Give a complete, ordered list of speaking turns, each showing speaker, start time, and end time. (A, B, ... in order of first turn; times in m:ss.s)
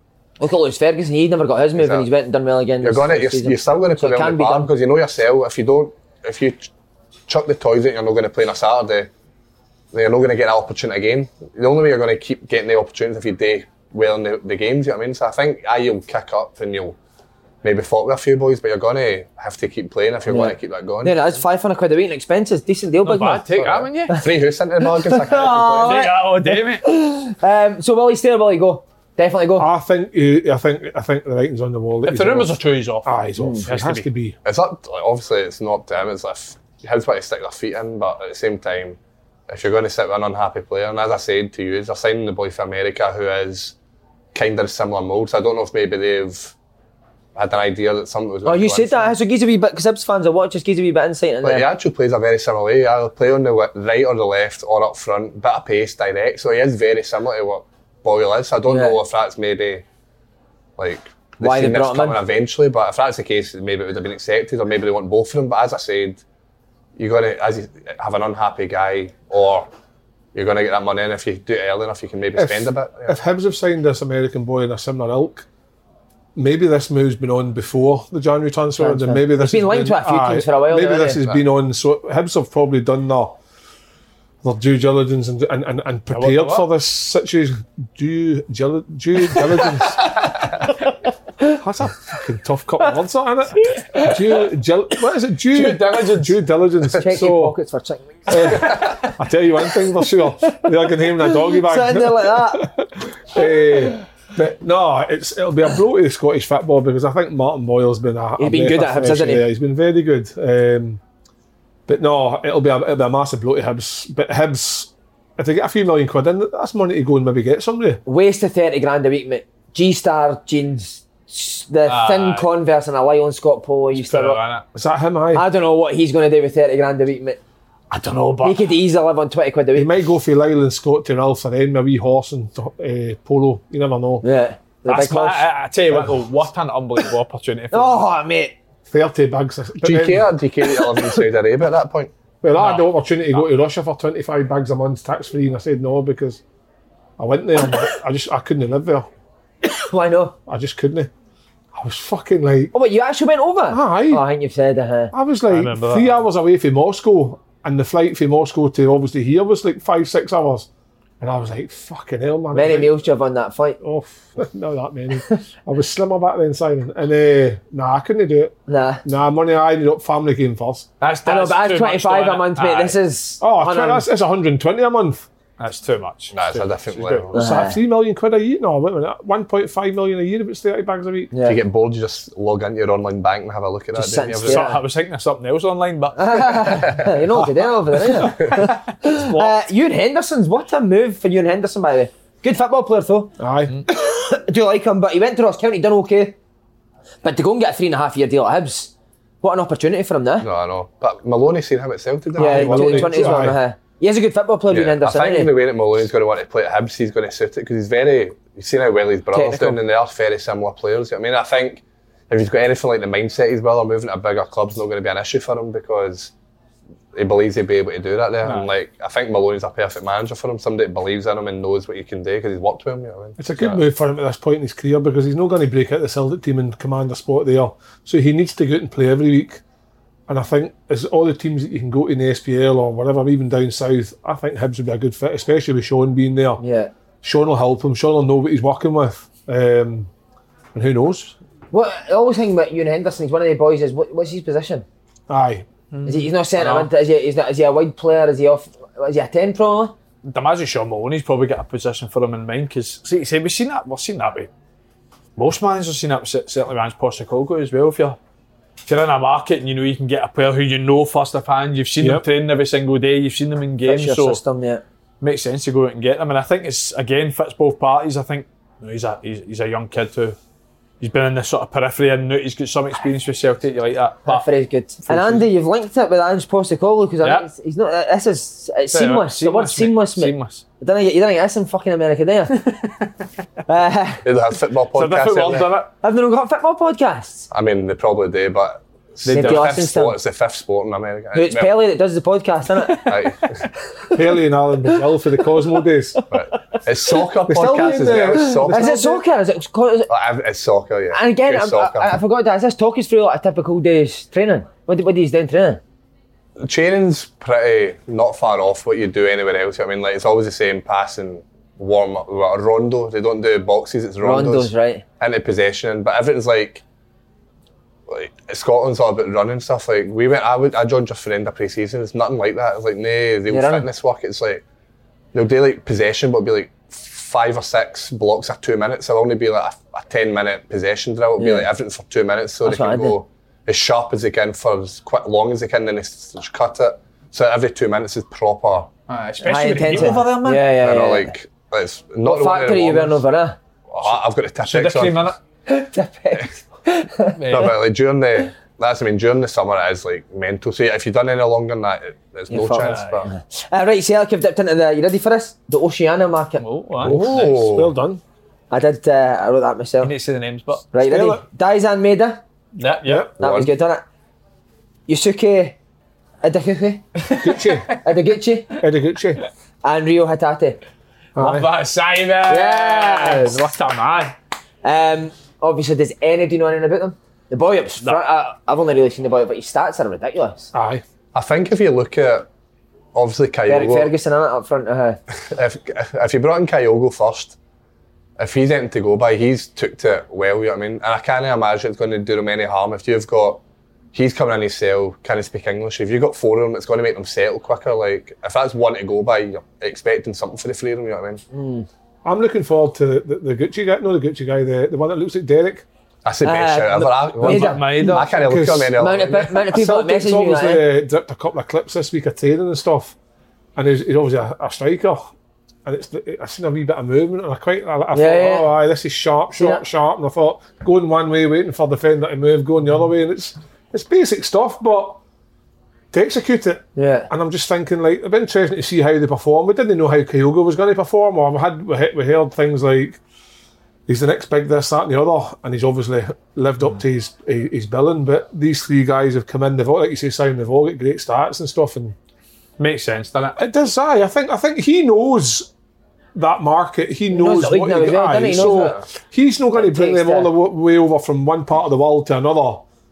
0:00.4-0:04.7 A
0:01.8-0:02.1 B
0:02.8-0:06.7 B
0:07.3-0:09.1 B
0:09.9-0:17.0 B
0:17.6-0:21.4 B
0:20.3-0:23.5 A
0:23.0-0:24.2 C
0:23.6-0:26.0 B
0:25.0-0:29.7 A
0:25.6-0:26.9 C
0:29.6-0:34.4 D
0:32.0-0:33.1 C
0:33.4-0:33.6 A
0:33.6-0:34.1 C
0:34.4-0:39.0 B
0:39.5-0:43.7 B
0:44.3-0:46.5 B
0:47.3-0:49.2 B
0:48.4-0:51.6 A
0:51.4-0:59.8 B
0:58.7-0:59.0 A
1:00.8-1:06.2 B
1:01.4-1:02.2 A
1:07.0-1:09.7 B
1:10.3-1:13.2 B
1:12.3-1:15.5 D
1:16.3-1:23.4 D
1:18.8-1:21.2 A
1:24.4-1:30.2 D
1:26.1-1:26.6 C
1:31.6-1:37.6 D
1:35.5-1:36.4 C
1:37.0-1:38.8 A
1:38.3-1:51.0 D
1:41.2-1:42.7 A
1:48.4-1:49.4 A
1:51.9-1:58.0 D
1:58.0-2:04.4 A
2:01.8-2:02.5 C
2:03.9-2:04.6 C
2:04.7-2:05.4 D
2:05.3-2:07.4 A
2:07.9-2:08.8 C
2:08.4-2:09.9 A
2:09.7-2:14.2 D
2:14.2-2:15.5 A
2:14.8-2:18.0 C
2:15.9-2:16.3 D
2:17.7-2:18.5 A
2:18.9-2:20.4 D
2:19.8-2:22.1 B
2:22.4-2:26.4 D
2:22.6-2:23.4 C
2:27.2-2:29.1 D
2:29.6-2:30.4 A
2:30.5-2:31.1 D
2:31.7-2:32.7 D
2:32.7-2:35.1 A
2:33.7-2:34.2 D
2:35.1-2:40.7 D
2:35.5-2:36.2 C
2:41.2-2:42.9 D
2:42.5-2:43.8 A
2:43.8-2:50.9 D
2:48.7-2:49.0 A
2:51.0-2:53.0 C
2:51.2-2:54.0 A
2:53.4-2:55.3 D
2:55.6-2:57.3 C
2:56.3-2:57.4 B
2:57.3-2:57.8 A
2:57.3-3:01.3 D
3:01.3-3:01.6 A
3:01.4-3:04.7 B
3:03.9-3:04.8 A
3:04.4-3:07.0 C
3:06.2-3:13.3 A
3:08.3-3:09.4 C
3:13.4-3:13.8 D
3:13.9-3:16.4 A
3:17.2-3:20.5 A
3:20.4-3:23.4 B
3:22.3-3:23.6 D
3:22.4-3:25.5 A
3:24.7-3:36.3 B
3:29.3-3:29.8 A
3:37.1-3:43.8 B
3:38.4-3:38.7 C
3:43.4-3:49.6 D
3:50.3-3:56.6 D
3:56.6-3:56.9 A
3:57.2-4:00.1 D
4:00.7-4:01.4 D
4:01.7-4:04.8 A
4:05.3-4:05.7 D
4:05.9-4:06.9 C
4:06.0-4:09.9 A
4:10.2-4:14.5 C
4:15.4-4:18.2 C
4:18.8-4:24.4 C
4:22.0-4:22.2 D
4:23.8-4:24.8 A
4:25.2-4:30.4 C
4:31.0-4:34.4 C
4:34.2-4:42.6 A
4:35.1-4:35.4 D
4:38.9-4:40.6 C
4:42.6-4:43.1 C
4:43.7-4:44.2 A
4:44.2-4:45.8 B
4:44.9-4:45.9 C
4:46.0-4:47.5 A
4:47.5-4:51.8 B
4:49.2-4:49.8 C
4:49.3-4:50.2 A
4:51.3-4:53.1 A
4:53.0-4:53.7 B
4:54.1-4:56.2 D
4:56.3-4:58.9 B
4:57.5-4:59.2 D
4:58.7-5:00.1 A
5:00.1-5:02.2 B
5:01.1-5:05.8 A
5:06.6-5:16.8 B
5:14.2-5:15.0 A
5:18.1-5:24.6 B
5:23.5-5:23.8 A
5:25.3-5:38.9 B
5:31.4-5:31.7 A
5:32.6-5:33.2 A
5:39.1-5:40.6 C
5:39.4-5:41.3 A
5:40.7-5:43.2 B
5:42.2-5:43.6 A
5:43.9-5:45.4 B
5:44.0-5:45.4 C
5:45.7-5:47.4 A
5:47.4-5:47.7 C
5:47.5-5:53.3 B
5:52.5-5:56.6 A
5:52.8-5:53.2 C
5:56.6-5:57.5 C
5:57.0-5:58.2 D
5:57.0-5:57.9 B
5:58.7-6:00.1 A
6:00.0-6:00.9 C
6:00.9-6:02.4 A
6:01.0-6:01.4 D
6:02.7-6:03.3 C
6:03.0-6:03.3 D
6:03.4-6:03.7 B
6:03.4-6:04.0 A
6:05.1-6:05.8 A
6:06.4-6:07.2 A
6:07.2-6:07.7 C
6:07.4-6:07.9 D
6:08.0-6:08.7 A
6:08.8-6:09.4 D
6:09.8-6:10.8 A
6:11.4-6:11.7 D
6:11.4-6:14.3 C
6:12.5-6:13.6 A
6:14.8-6:20.7 A
6:20.7-6:21.0 D
6:21.3-6:22.5 B
6:23.1-6:24.1 B
6:23.7-6:25.2 A
6:25.5-6:27.6 B
6:28.4-6:33.6 B
6:34.1-6:41.4 B
6:41.5-6:41.9 A
6:42.2-6:45.8 D
6:46.2-6:49.6 B
6:46.4-6:48.2 A
6:47.4-6:48.3 C
6:48.0-6:49.0 D
6:49.0-6:50.8 A
6:49.5-6:53.1 D
6:53.8-6:55.3 D
6:55.8-7:05.2 D
6:58.1-6:58.7 A
6:59.6-6:59.8 A
7:06.1-7:13.2 D
7:07.0-7:07.3 A
7:14.1-7:22.2 D
7:22.8-7:23.6 C
7:23.6-7:25.7 D
7:26.3-7:32.8 D
7:27.3-7:29.0 A
7:29.7-7:30.5 A